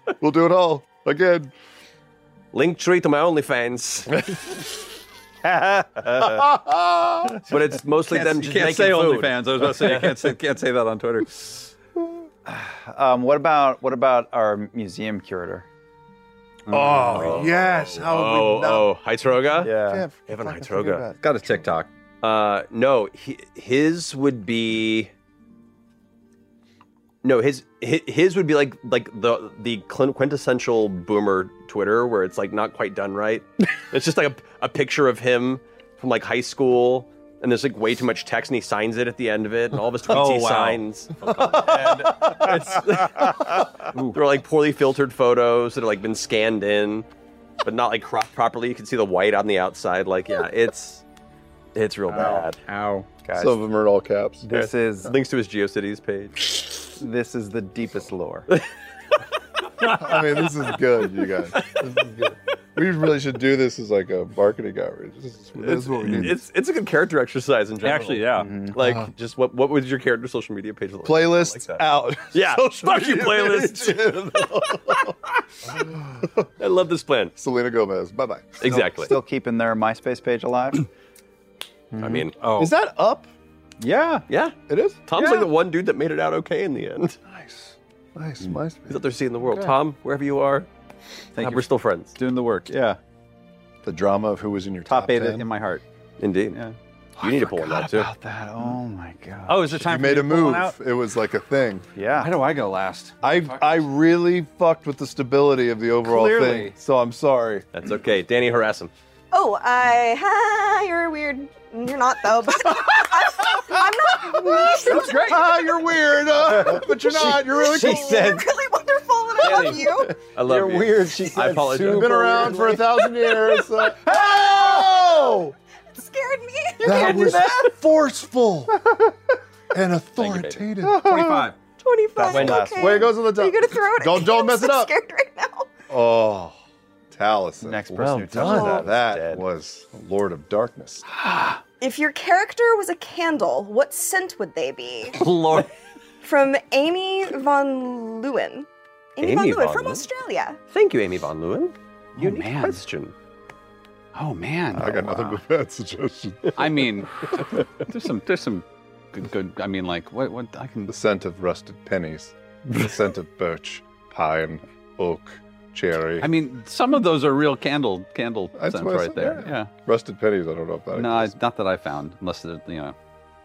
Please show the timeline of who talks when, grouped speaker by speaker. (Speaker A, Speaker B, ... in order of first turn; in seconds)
Speaker A: 0.2-1.5, 6.2-7.4, 16.7-18.9, 19.8-21.7, 41.4-42.8, 53.4-54.5, 59.9-66.4, 68.8-69.1, 71.0-75.2, 75.7-76.5, 77.4-79.1, 82.5-83.3, 84.7-85.1, 87.3-89.8, 93.8-95.5, 99.7-101.9, 103.2-107.7, 114.2-118.4, 121.8-125.5, 126.8-128.8, 129.7-131.5, 132.6-134.9, 135.9-136.6, 137.1-141.1, 154.7-156.8, 160.9-166.3, 168.6-171.3
Speaker B: 2.5-4.2, 7.5-10.2, 17.1-19.7, 20.3-21.1, 22.2-25.1, 27.2-47.1, 47.6-51.0, 51.8-52.6, 54.5-56.7, 59.8-60.3, 65.6-75.1, 76.6-77.3, 78.6-79.2, 82.0-82.3, 84.3-87.2, 88.9-90.7, 91.4-92.2, 96.2-96.6, 97.2-98.1, 107.7-108.9, 119.4-122.5, 132.3-132.7, 138.0-138.8, 145.2-145.6, 149.2-150.1, 150.7-153.1
Speaker C: 5.6-6.3, 12.5-15.7, 19.6-20.1, 53.2-53.6, 54.4-55.1, 57.0-58.5, 68.4-68.7, 79.0-80.9, 97.2-99.7, 102.0-102.3, 120.5-122.8, 130.8-131.5, 132.2-133.2, 137.6-139.4
Speaker D: 8.1-11.7, 16.7-17.6, 21.2-21.9, 40.1-41.9, 43.9-44.2, 52.1-53.1, 67.8-68.6, 82.4-82.7, 83.8-84.2, 91.4-93.0, 94.9-95.8, 96.5-96.8, 99.5-100.8, 102.2-103.8, 106.0-106.7, 114.9-115.4, 117.7-118.4, 121.2-122.0, 130.2-131.6, 141.2-141.6, 145.3-145.7, 152.2-152.8, 154.2-155.4, 156.6-160.9, 166.2-169.7, 170.9-173.0
Speaker E: 109.3-115.3, 117.3-120.2, 124.1-125.4, 125.9-127.3, 131.8-135.7, 138.4-138.8, 141.8-145.3, 146.2-150.6